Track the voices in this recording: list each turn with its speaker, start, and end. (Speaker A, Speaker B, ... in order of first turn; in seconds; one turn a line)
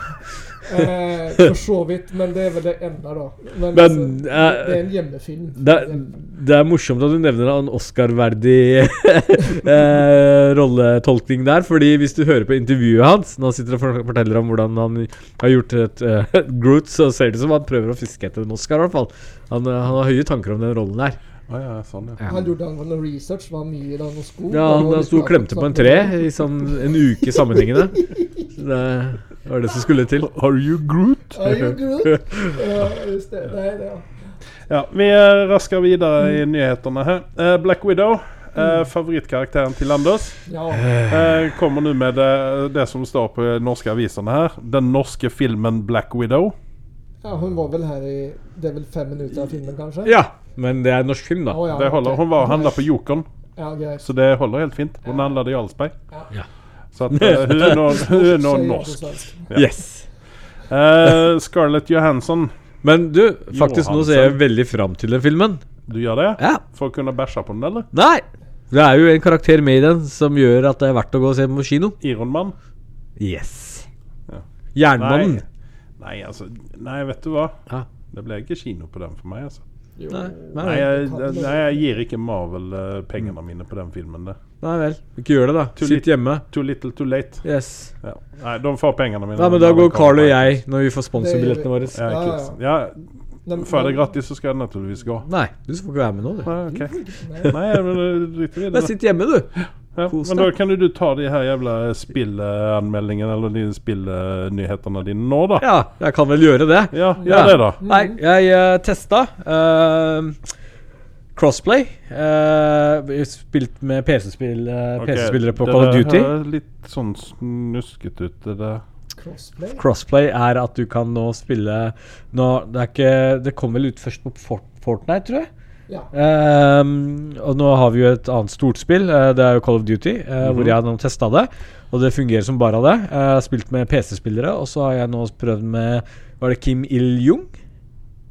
Speaker A: 0.6-6.2
Speaker B: 3.7-4.8
Speaker B: 5.6-21.2
Speaker C: 21.5-22.2
Speaker A: 22.2-28.5
Speaker B: 24.5-28.0
Speaker B: 28.6-30.3
Speaker C: 30.2-31.7
Speaker A: 31.3-34.4
Speaker B: 32.0-32.6
Speaker C: 34.7-40.4
Speaker A: 40.5-41.0
Speaker B: 40.7-41.4
Speaker C: 41.1-46.5
Speaker A: 47.2-50.1
Speaker B: 50.0-51.6
Speaker A: 51.5-52.9
Speaker C: 51.7-53.2
Speaker A: 53.5-54.1
Speaker C: 54.0-55.9
Speaker A: 55.0-55.4
Speaker C: 56.9-59.7
Speaker B: 57.1-57.8
Speaker A: 57.7-59.5
Speaker B: 59.5-60.1
Speaker C: 60.6-62.5
Speaker B: 62.8-65.7
Speaker C: 63.5-64.4
Speaker C: 65.9-67.9
Speaker B: 66.4-66.6
Speaker B: 67.9-72.0
Speaker C: 72.0-72.5
Speaker B: 73.2-73.9
Speaker B: 74.7-75.4
Speaker C: 75.0-75.4
Speaker C: 76.0-79.6
Speaker A: 80.0-81.8
Speaker B: 80.1-80.9
Speaker C: 80.6-84.4
Speaker B: 84.6-86.4
Speaker C: 85.8-87.5
Speaker B: 87.4-87.9
Speaker C: 88.0-90.6
Speaker B: 89.3-92.0
Speaker A: 91.2-92.6
Speaker C: 92.0-95.3
Speaker A: 93.4-94.0
Speaker B: 95.2-96.5
Speaker C: 96.5-96.9
Speaker A: 96.7-97.5
Speaker C: 97.5-98.9
Speaker B: 98.7-99.5
Speaker C: 99.5-105.6
Speaker B: 100.1-100.5
Speaker B: 105.6-110.4
Speaker C: 106.9-107.8
Speaker A: 107.2-108.2
Speaker B: 111.3-116.3
Speaker C: 115.0-118.8
Speaker A: 119.2-119.8
Speaker B: 119.7-125.5
Speaker B: 126.1-137.5
Speaker C: 130.4-130.7